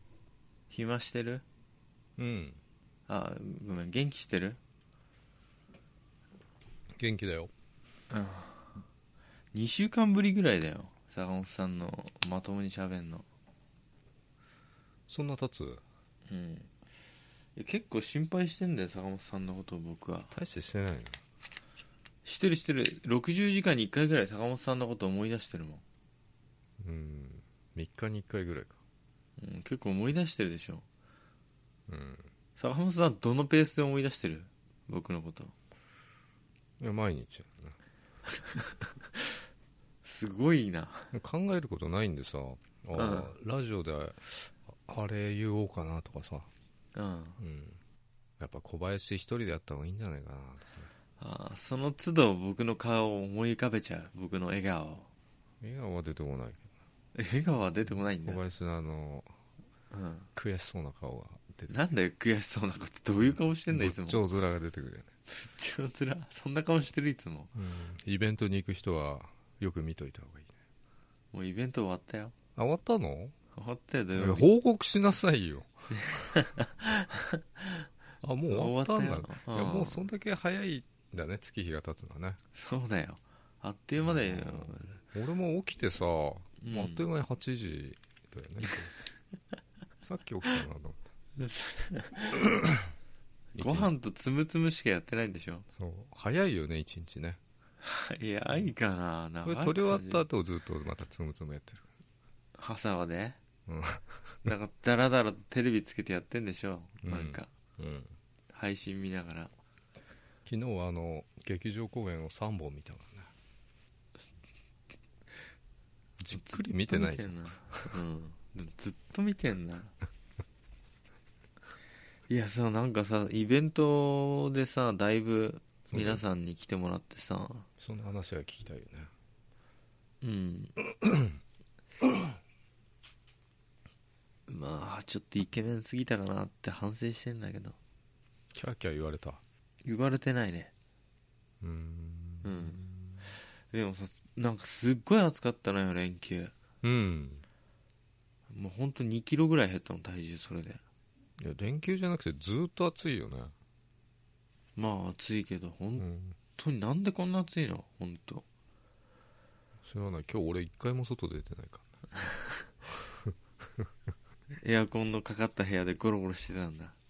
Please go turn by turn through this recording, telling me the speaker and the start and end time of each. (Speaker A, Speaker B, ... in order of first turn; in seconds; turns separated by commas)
Speaker A: 0.7-1.4, Speaker B: 2.2-2.6, Speaker A: 3.1-4.6, Speaker B: 6.9-7.5, Speaker A: 8.1-8.8, Speaker A: 9.5-13.2, Speaker B: 15.1-15.8, Speaker A: 16.3-16.7, Speaker A: 17.6-20.3, Speaker B: 20.3-21.2, Speaker A: 22.2-25.8, Speaker B: 26.8-28.8, Speaker A: 29.4-30.8, Speaker B: 31.9-32.3, Speaker A: 32.6-35.5, Speaker B: 36.8-37.8, Speaker A: 38.3-39.4, Speaker A: 40.0-41.1, Speaker B: 41.1-46.5, Speaker A: 42.9-43.3, Speaker A: 46.9-47.4, Speaker B: 47.4-47.8, Speaker B: 48.4-50.9, Speaker A: 51.2-55.1, Speaker B: 55.6-56.7, Speaker A: 57.1-58.4, Speaker B: 58.2-59.3, Speaker A: 59.9-60.3, Speaker B: 60.4-61.8, Speaker A: 61.7-64.2, Speaker B: 63.1-65.1, Speaker A: 65.3-67.5, Speaker B: 67.5-70.5, Speaker A: 71.3-72.3, Speaker B: 72.5-73.3, Speaker A: 73.5-74.5, Speaker B: 74.2-76.3, Speaker A: 75.9-77.9, Speaker B: 78.2-82.4, Speaker A: 78.5-80.0, Speaker A: 82.5-85.0, Speaker B: 84.0-88.9, Speaker A: 86.6-87.0, Speaker B: 90.0-91.0, Speaker A: 91.4-92.5, Speaker B: 92.5-92.9, Speaker B: 93.6-93.9, Speaker A: 93.6-95.7, Speaker B: 95.7-97.4, Speaker A: 97.8-100.2, Speaker B: 99.4-101.9, Speaker A: 102.6-103.4, Speaker B: 103.7-104.5, Speaker A: 104.4-107.5, Speaker B: 107.0-108.1, Speaker A: 108.5-109.5, Speaker B: 110.5-113.3, Speaker B: 116.2-118.0, Speaker A: 116.3-119.9, Speaker A: 122.3-127.7, Speaker B: 125.9-126.2, Speaker B: 127.8-129.1, Speaker A: 130.2-130.8, Speaker B: 130.8-131.4, Speaker B: 132.0-132.3, Speaker A: 134.5-137.8, Speaker B: 138.5-139.4, Speaker A: 139.8-140.7, Speaker B: 141.6-143.2, Speaker A: 142.4-142.8, Speaker A: 143.7-146.5, Speaker B: 146.8-147.4, Speaker A: 148.5-150.8, Speaker B: 151.4-153.5, Speaker A: 154.8-158.4, Speaker B: 156.0-156.3, Speaker B: 159.8-161.9, Speaker B: 162.9-163.9, Speaker A: 164.6-166.9